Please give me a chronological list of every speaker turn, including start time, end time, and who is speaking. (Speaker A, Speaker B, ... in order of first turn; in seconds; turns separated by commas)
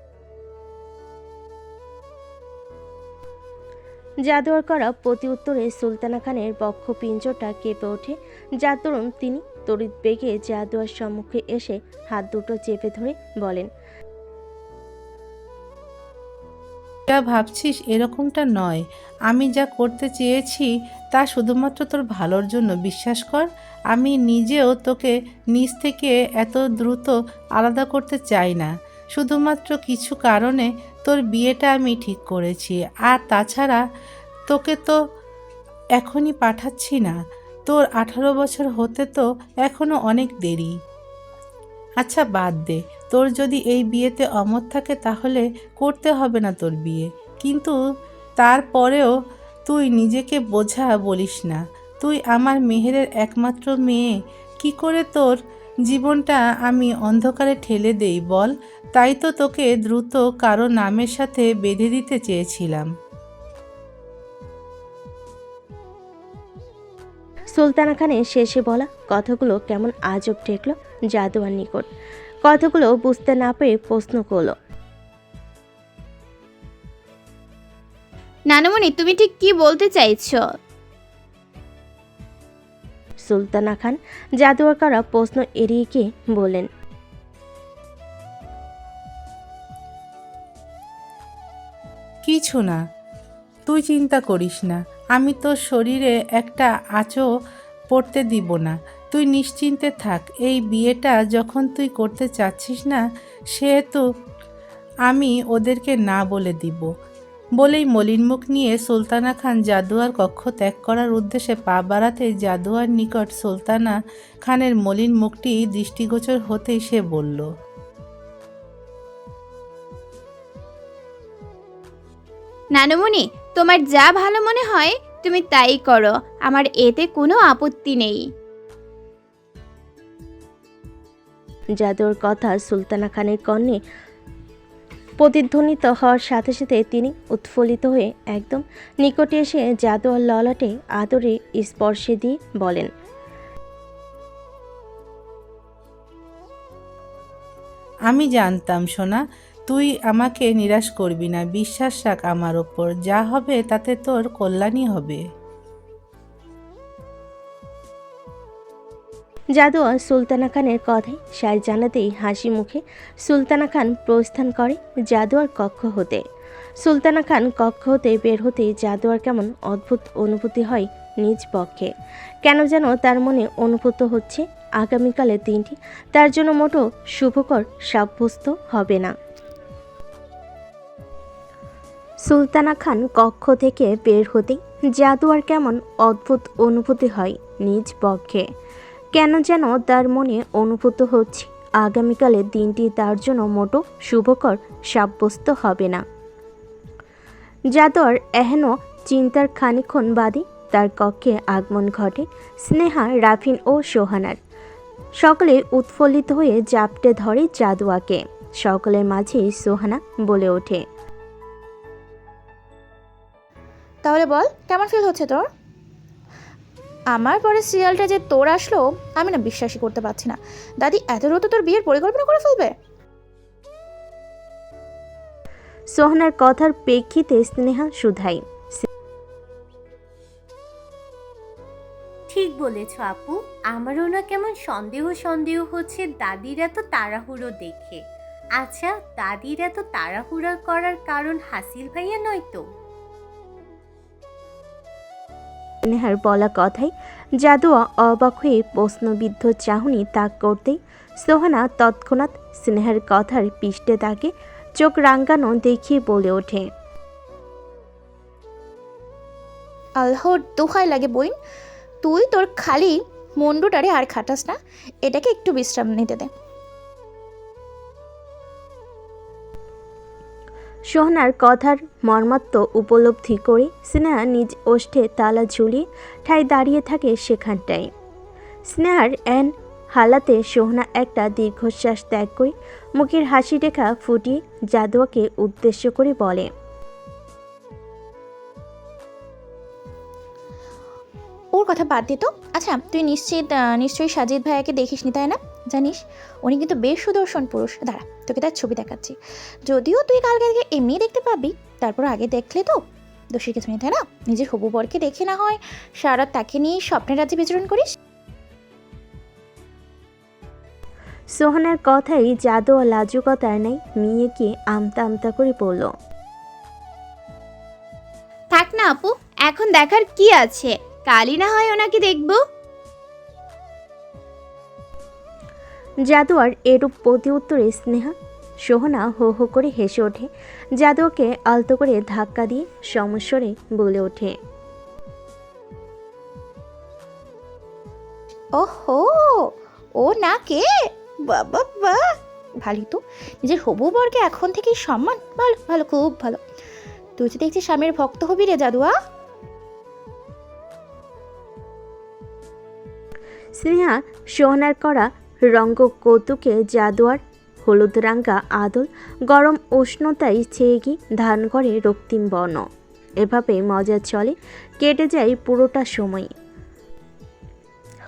Speaker A: 4.2-13.7, Speaker B: 17.1-33.8, Speaker B: 34.5-35.0, Speaker B: 36.0-37.2, Speaker B: 37.7-40.7, Speaker B: 42.0-47.7, Speaker B: 48.4-49.1, Speaker B: 49.7-55.4, Speaker B: 55.9-62.9, Speaker A: 67.5-71.9, Speaker A: 72.5-74.5, Speaker C: 78.5-80.4, Speaker A: 83.3-86.7, Speaker B: 92.3-92.8, Speaker B: 93.7-97.3, Speaker B: 97.9-103.0, Speaker B: 103.5-104.0, Speaker B: 105.1-106.9, Speaker B: 107.6-117.5, Speaker C: 122.8-128.2, Speaker A: 131.8-133.8, Speaker A: 135.2-142.9, Speaker B: 148.1-155.2, Speaker A: 159.6-166.2, Speaker A: 166.8-171.9, Speaker A: 172.4-179.2, Speaker A: 182.2-188.5, Speaker A: 189.1-196.0, Speaker A: 197.7-204.4, Speaker A: 205.2-210.8, Speaker D: 214.1-215.5, Speaker D: 217.1-222.7, Speaker A: 225.9-228.9, Speaker E: 232.3-238.0, Speaker E: 238.6-242.6, Speaker A: 245.8-256.7, Speaker D: 260.0-261.3, Speaker D: 262.0-266.3, Speaker A: 270.9-277.9, Speaker A: 278.6-286.5, Speaker D: 291.5-302.8, Speaker D: 303.3-307.9, Speaker A: 311.3-315.9, Speaker C: 318.5-322.4, Speaker A: 326.1-334.4, Speaker D: 338.6-342.1, Speaker D: 342.6-346.4, Speaker D: 347.2-348.9, Speaker A: 353.6-362.7, Speaker A: 363.2-366.3